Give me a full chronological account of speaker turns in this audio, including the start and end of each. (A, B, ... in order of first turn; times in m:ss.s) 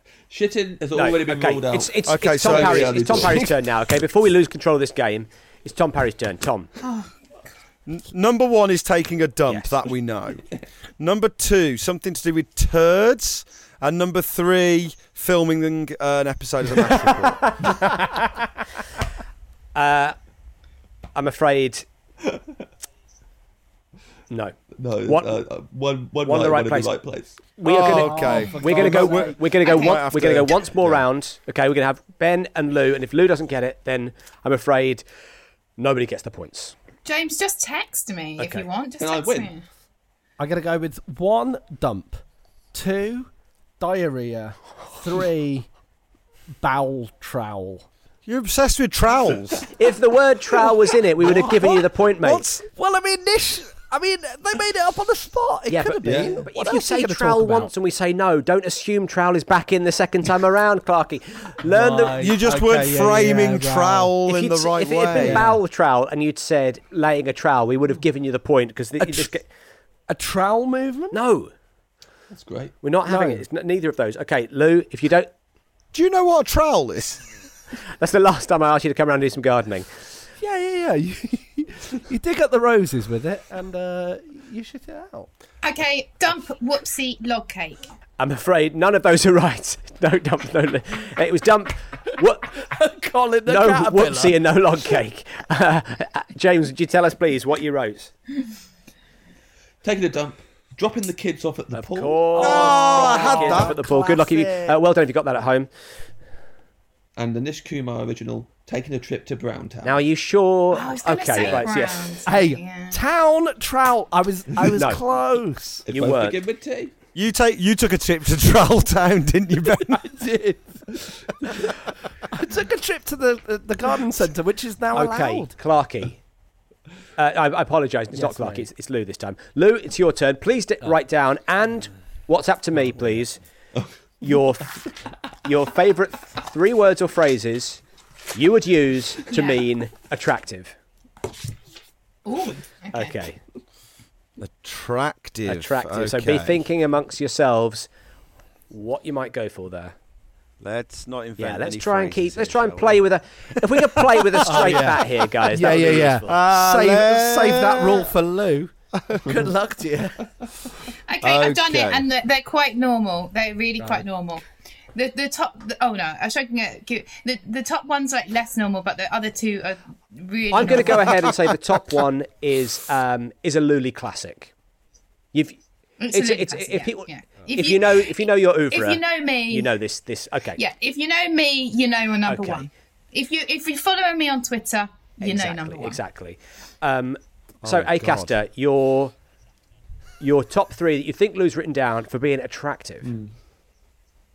0:00.3-0:03.5 A
0:01.0-0:06.7 B
0:02.1-0:03.2 C
0:06.8-0:07.1 D
0:07.9-0:10.4 C
0:09.5-0:09.9 B
0:11.0-0:17.6 C
0:19.8-0:20.2 B
0:21.2-0:21.9 B
0:24.3-0:25.4 B
0:24.8-0:27.4 A
0:26.2-0:26.9 B
0:27.6-0:35.0 B
0:27.6-0:31.0 C
0:27.8-0:29.6 E
0:29.7-0:29.9 D
0:35.8-0:36.7 B
0:37.0-0:39.6 D
0:38.4-0:38.6 B
0:39.0-0:39.5 A
0:40.4-0:42.2 E
0:42.7-0:43.3 E
0:43.8-0:45.7 E
0:46.6-0:47.9 E
0:48.3-0:49.6 C
0:49.8-0:52.4 B
0:51.4-0:51.7 E
0:52.2-0:52.6 C
0:52.6-0:57.7 E
0:55.7-1:02.2 B
0:56.0-0:56.4 A
1:01.6-1:04.1 E
1:02.2-1:05.4 C
1:04.2-1:09.4 B
1:05.2-1:05.6 E
1:09.0-1:09.3 E
1:10.1-1:11.2 E
1:11.1-1:11.5 B
1:12.3-1:12.8 A
1:12.8-1:15.3 B
1:13.1-1:13.4 E
1:15.9-1:17.2 C
1:18.0-1:19.9 B
1:20.4-1:25.3 E
1:25.6-1:27.9 D
1:28.2-1:32.6 B
1:32.7-1:34.4 E
1:33.5-1:38.1 B
1:39.8-1:42.4 A
1:41.7-1:45.7 B
1:42.4-1:44.8 E
1:42.4-1:43.8 C
1:47.2-1:50.0 A
1:49.8-1:52.2 B
1:50.7-1:53.0 D
1:52.2-1:55.8 E
1:54.7-1:55.0 B
1:55.9-1:56.9 A
1:55.9-1:56.4 B
1:57.2-2:00.0 C
1:59.8-2:01.7 E
2:02.3-2:05.5 E
2:04.9-2:06.2 B
2:07.2-2:13.4 B
2:08.1-2:08.7 E
2:12.9-2:13.2 E
2:14.2-2:14.8 B
2:15.4-2:17.8 B
2:18.3-2:20.8 B
2:19.3-2:19.6 D
2:22.2-2:23.2 D
2:22.9-2:23.4 B
2:24.4-2:26.6 C
2:25.5-2:27.9 B
2:28.7-2:30.0 B
2:30.6-2:33.0 C
2:31.4-2:36.4 B
2:34.4-2:40.2 E
2:36.3-2:38.1 C
2:41.1-2:51.3 D
2:41.2-2:42.0 C
2:50.5-2:54.5 B
2:55.3-2:55.6 B
2:56.0-2:59.7 D
2:56.1-3:00.6 B
3:00.6-3:06.0 D
3:02.3-3:02.7 B
3:05.2-3:09.1 B
3:07.6-3:08.4 C
3:10.2-3:13.1 B
3:13.0-3:13.3 A